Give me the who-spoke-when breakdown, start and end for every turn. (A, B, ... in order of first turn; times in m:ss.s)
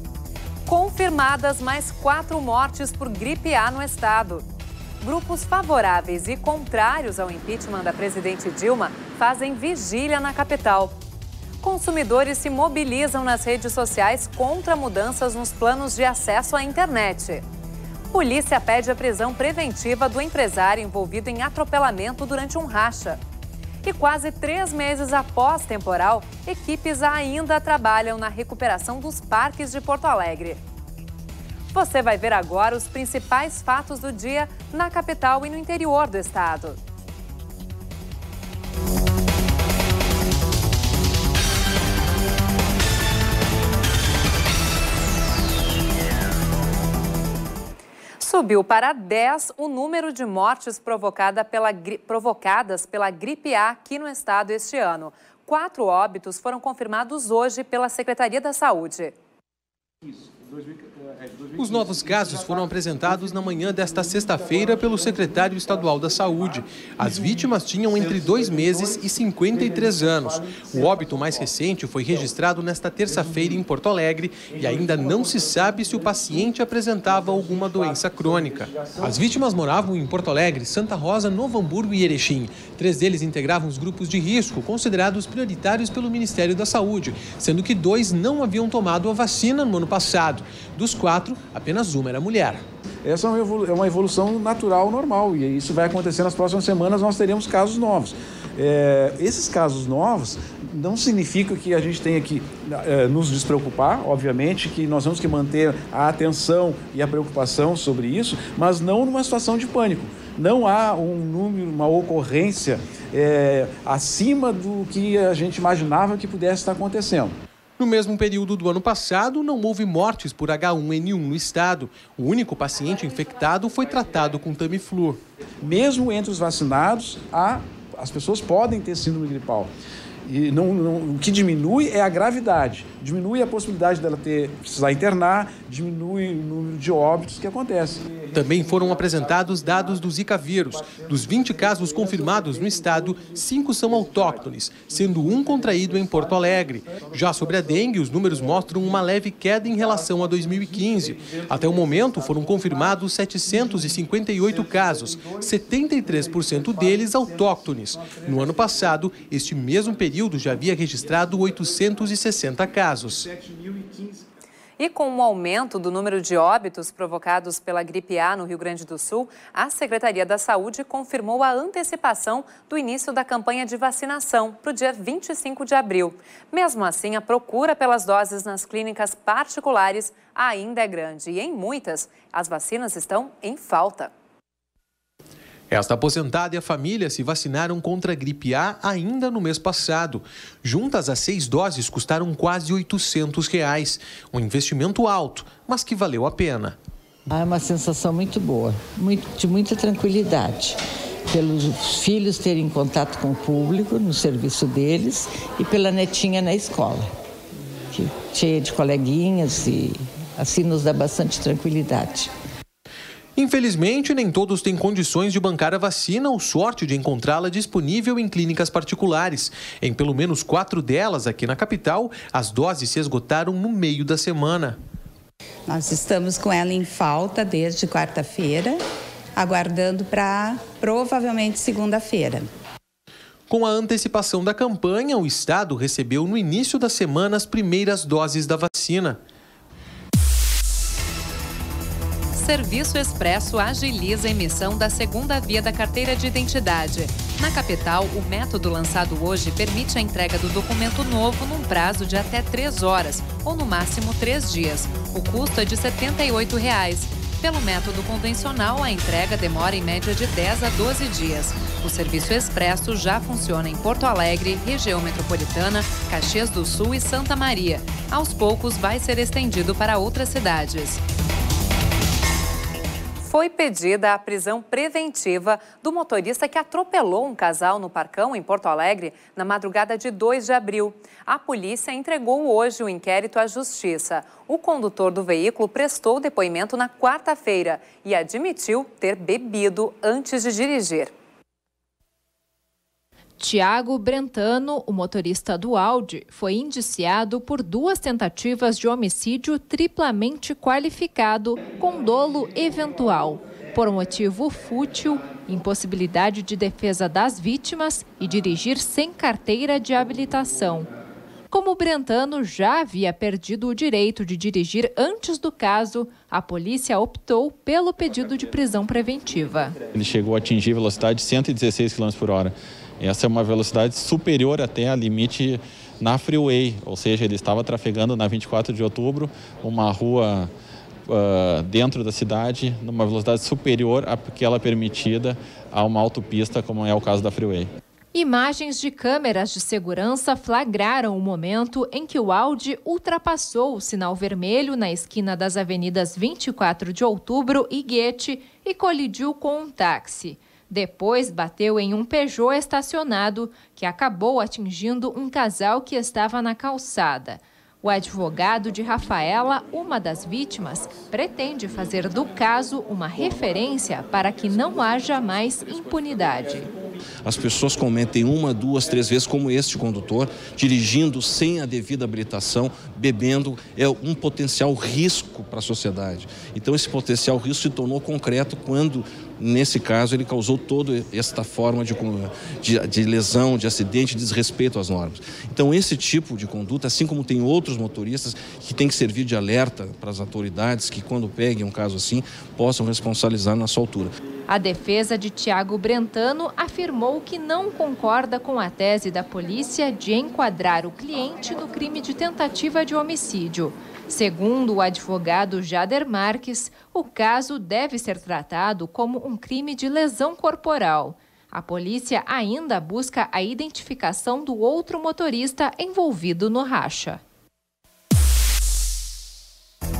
0:00.7-0:04.4 A
0:05.0-0:10.9 A
0:11.6-0:17.4 A
0:18.1-0:23.2 A
0:23.8-0:30.6 A
0:31.7-0:36.8 A
0:48.2-0:59.1 A
1:01.5-1:32.6 B
1:33.0-1:57.4 C
1:57.8-2:05.2 B
2:05.6-2:09.7 C
2:10.2-2:18.2 C
2:18.3-2:43.3 B
2:44.8-3:04.1 A
3:05.7-3:16.8 B
3:17.3-3:27.1 D
3:27.9-3:32.3 D
3:33.4-3:44.8 B
3:45.7-3:48.8 E
3:49.4-3:52.5 E
3:53.5-3:59.2 B
4:02.3-4:31.0 A
4:33.2-4:51.1 A
4:53.4-5:10.9 F
5:11.5-5:19.7 F
5:19.9-5:30.5 G
5:31.1-5:37.7 G
5:38.1-6:06.7 F
6:07.2-6:34.1 H
6:34.5-6:57.2 F